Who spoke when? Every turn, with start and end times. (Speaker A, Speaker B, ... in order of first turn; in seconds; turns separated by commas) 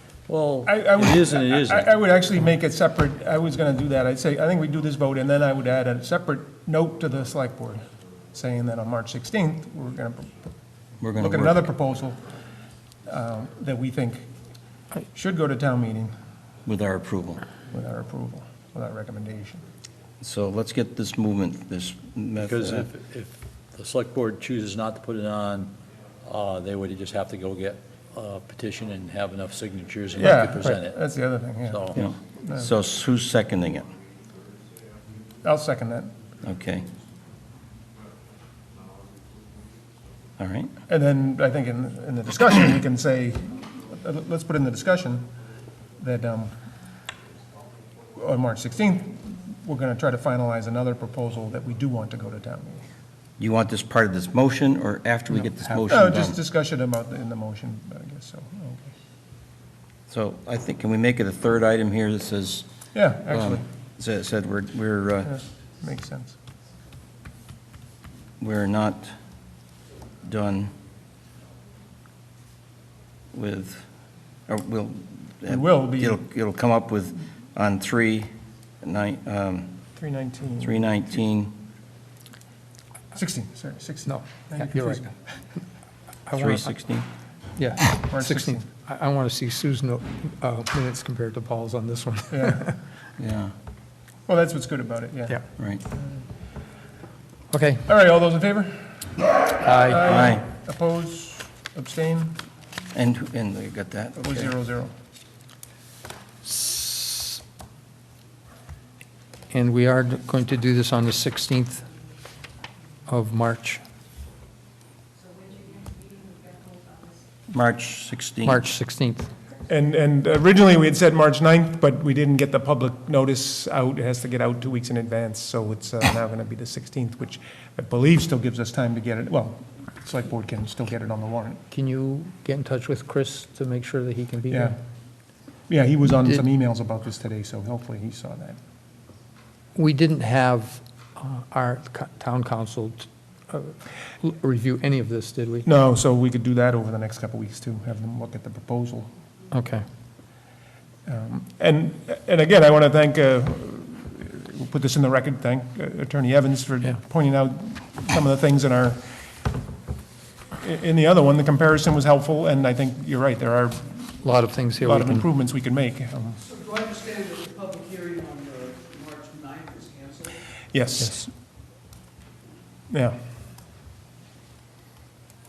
Speaker A: 0.3-1.9, Speaker B: 0.7-10.5, Speaker C: 11.0-11.7, Speaker B: 11.2-12.2, Speaker B: 13.1-14.3, Speaker B: 15.1-16.1, Speaker C: 16.6-17.4, Speaker B: 17.7-19.6, Speaker C: 20.2-22.9, Speaker A: 22.4-31.0, Speaker B: 30.1-32.7, Speaker A: 31.6-32.0, Speaker C: 31.9-33.9, Speaker B: 35.4-36.1, Speaker C: 36.4-36.9, Speaker C: 40.4-40.7, Speaker B: 40.9-45.3, Speaker B: 46.0-46.5, Speaker B: 48.1-52.8, Speaker C: 53.4-56.4, Speaker B: 55.9-58.9, Speaker C: 60.1-62.7, Speaker B: 62.9-63.6, Speaker C: 63.3-65.3, Speaker B: 65.2-66.3, Speaker C: 68.4-69.1, Speaker C: 70.2-70.7, Speaker C: 73.3-73.8, Speaker C: 74.5-78.3, Speaker B: 75.5-76.2, Speaker C: 78.8-79.8, Speaker B: 80.0-80.7, Speaker C: 80.6-81.5, Speaker B: 83.1-85.1, Speaker D: 84.0-85.1, Speaker D: 86.3-86.7, Speaker C: 86.3-87.0, Speaker D: 87.5-92.8, Speaker B: 87.9-88.7, Speaker B: 92.3-92.6, Speaker C: 93.2-93.5, Speaker B: 94.3-95.4, Speaker D: 97.5-97.9, Speaker B: 97.9-102.4, Speaker D: 99.6-100.3, Speaker C: 100.1-100.4, Speaker C: 102.9-104.5, Speaker B: 104.2-104.9, Speaker D: 106.4-107.4, Speaker D: 109.5-111.8, Speaker D: 113.1-113.8, Speaker C: 117.5-118.6, Speaker D: 118.4-119.3, Speaker B: 119.7-131.6, Speaker D: 131.7-134.8, Speaker B: 134.5-134.8, Speaker B: 135.7-138.6, Speaker D: 139.7-145.7, Speaker B: 145.6-149.1, Speaker D: 149.5-149.8, Speaker B: 151.1-159.1, Speaker B: 160.6-164.2, Speaker D: 164.2-165.2, Speaker B: 164.8-166.4, Speaker E: 166.6-170.3, Speaker B: 170.7-171.3, Speaker B: 172.9-173.2